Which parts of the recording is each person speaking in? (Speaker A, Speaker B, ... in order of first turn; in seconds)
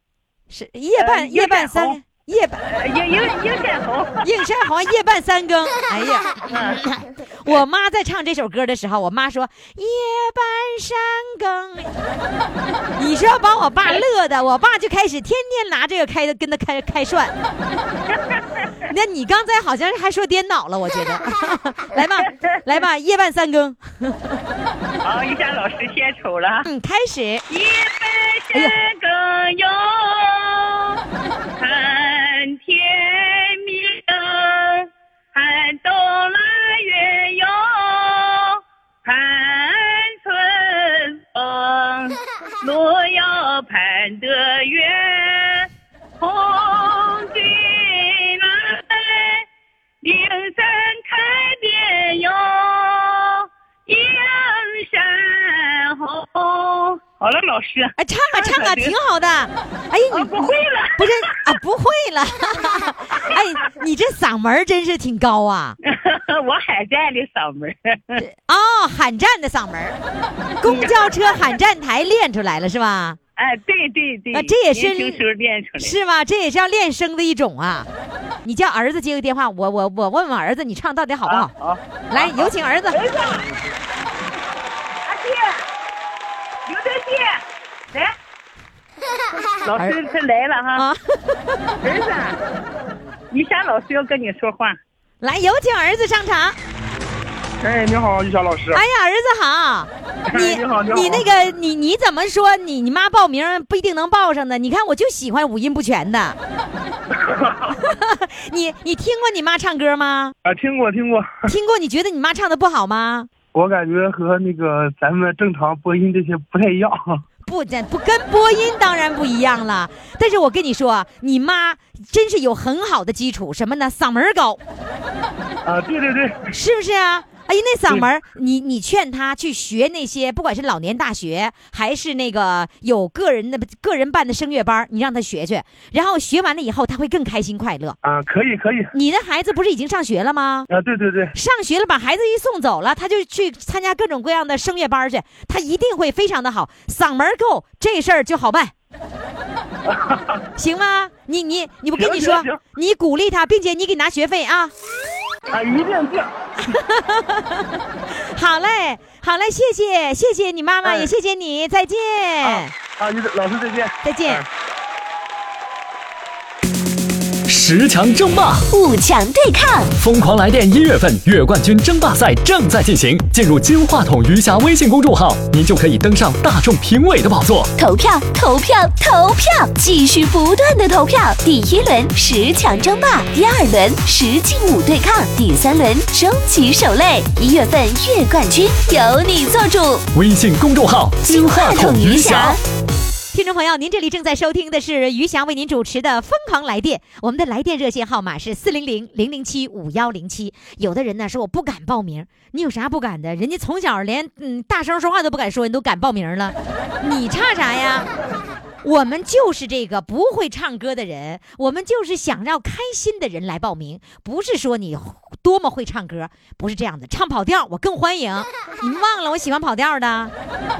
Speaker A: 0.5-2.6, 4.2-11.9, 13.0-17.3, 18.9-24.4, 26.6-27.4, 58.0-65.8, 68.2-70.0, 70.6-73.2, 74.3-75.2, 75.8-77.9, 78.4-81.5, 82.1-83.0, 90.7-91.6, 95.2-96.6, 98.7-106.4, 107.8-110.3, 111.5-113.3, 117.4-124.6, 126.5-137.9, 138.9-140.7, 141.3-148.7, 150.6-154.7, 156.7-162.7, 164.0-164.4, 193.3-208.1, 208.8-220.3
Speaker B: 1.0-2.0, 2.6-4.7, 6.5-6.8, 18.1-18.4, 25.0-26.7, 27.5-31.0, 31.6-45.7, 46.2-49.5, 50.0-59.0, 60.1-61.5, 65.8-68.2, 70.6-71.4, 73.4-76.0, 81.2-83.5, 85.1-85.6, 86.7-88.1, 89.6-90.8, 91.8-92.4, 93.3-94.8
Speaker C: 97.6-98.8, 100.3-101.2, 107.1-107.8, 110.4-111.5, 113.5-117.2, 125.7-126.4, 138.0-138.9, 140.7-141.3, 149.8-150.4, 151.9-152.6, 155.5-156.3, 160.8-161.1, 162.4-164.4
Speaker D: 167.5-168.7, 170.0-177.7, 190.1-192.6
Speaker E: 168.7-169.9, 177.8-190.0, 191.3-192.6